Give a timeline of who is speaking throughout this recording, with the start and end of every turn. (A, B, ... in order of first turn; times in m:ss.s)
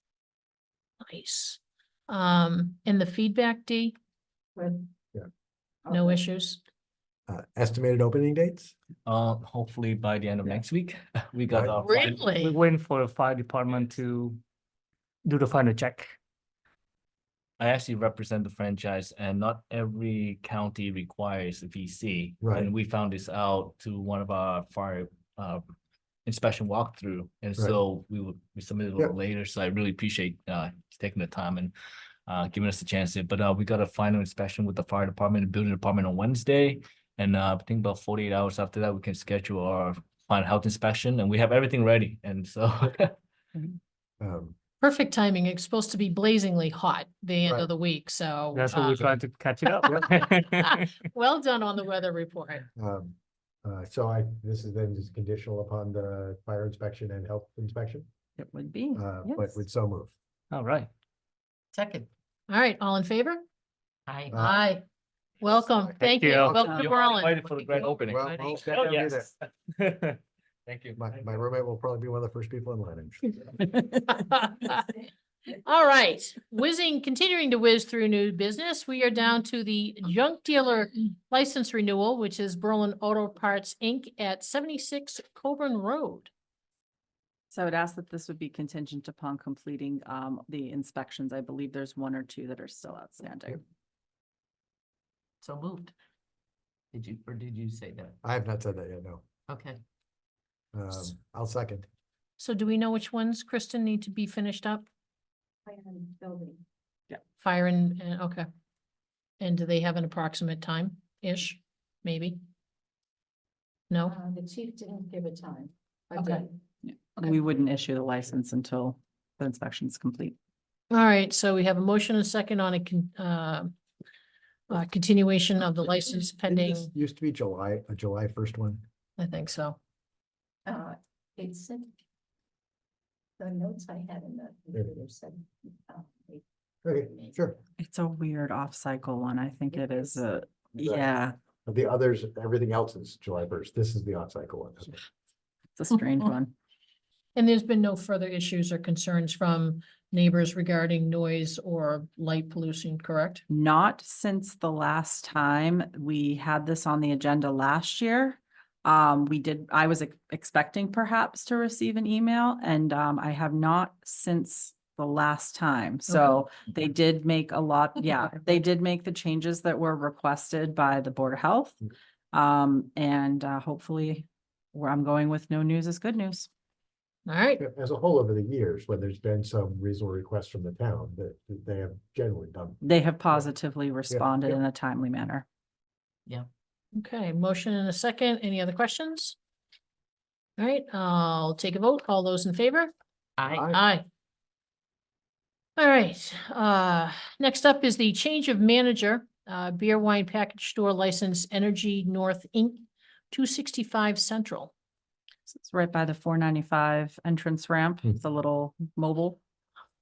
0:01.0-0:04.0 A
0:04.6-0:04.8 B
0:05.9-0:06.2 B
0:05.9-0:06.6 A
0:07.3-0:08.7 C
0:09.0-0:12.3 D
0:11.5-0:11.7 C
0:11.8-0:12.6 A
0:12.4-0:14.4 E
0:15.2-0:16.2 E
0:17.6-0:25.6 D
0:22.4-0:22.7 C
0:26.2-0:31.7 D
0:32.3-0:43.1 D
0:44.2-0:44.6 C
0:44.8-0:49.2 A
0:48.5-0:50.9 E
0:49.8-0:52.6 A
0:52.8-0:58.1 C
0:58.4-0:59.6 F
0:58.9-1:00.1 C
1:00.5-1:00.9 E
1:01.7-1:02.1 G
1:02.5-1:03.4 A
1:04.1-1:04.4 G
1:04.3-1:04.6 C
1:04.4-1:04.8 A
1:05.4-1:07.4 A
1:05.6-1:06.6 C
1:06.0-1:06.7 E
1:06.6-1:08.8 G
1:06.7-1:08.6 D
1:08.0-1:09.3 C
1:08.7-1:09.2 E
1:09.8-1:10.2 E
1:10.6-1:11.2 D
1:10.9-1:13.6 C
1:14.1-1:14.8 A
1:15.5-1:26.3 A
1:27.5-1:33.6 F
1:35.4-1:35.9 G
1:36.9-1:38.2 G
1:38.2-1:39.2 C
1:39.5-1:39.8 G
1:40.7-1:41.8 C
1:42.4-1:44.9 A
1:45.6-1:46.6 B
1:47.4-1:48.5 A
1:49.4-1:52.4 A
1:53.9-1:54.2 A
1:54.1-1:56.5 B
1:56.2-1:56.4 A
1:56.8-2:00.4 F
2:00.9-2:03.7 A
2:04.7-2:06.9 A
2:06.5-2:08.8 C
2:09.2-2:09.8 A
2:10.6-2:11.9 B
2:13.4-2:16.4 B
2:16.8-2:17.6 C
2:17.8-2:21.4 F
2:20.8-2:21.1 C
2:21.6-2:25.0 C
2:25.8-2:26.5 F
2:27.3-2:33.4 A
2:33.5-2:51.8 F
2:46.1-2:46.4 A
2:52.3-2:56.5 F
2:57.3-2:57.6 A
2:57.6-3:03.4 C
3:02.8-3:05.4 F
3:04.1-3:04.6 C
3:06.9-3:09.3 A
3:10.6-3:12.9 A
3:13.4-3:13.7 G
3:13.4-3:13.8 C
3:13.6-3:14.0 A
3:15.8-3:24.7 A
3:25.4-3:29.4 F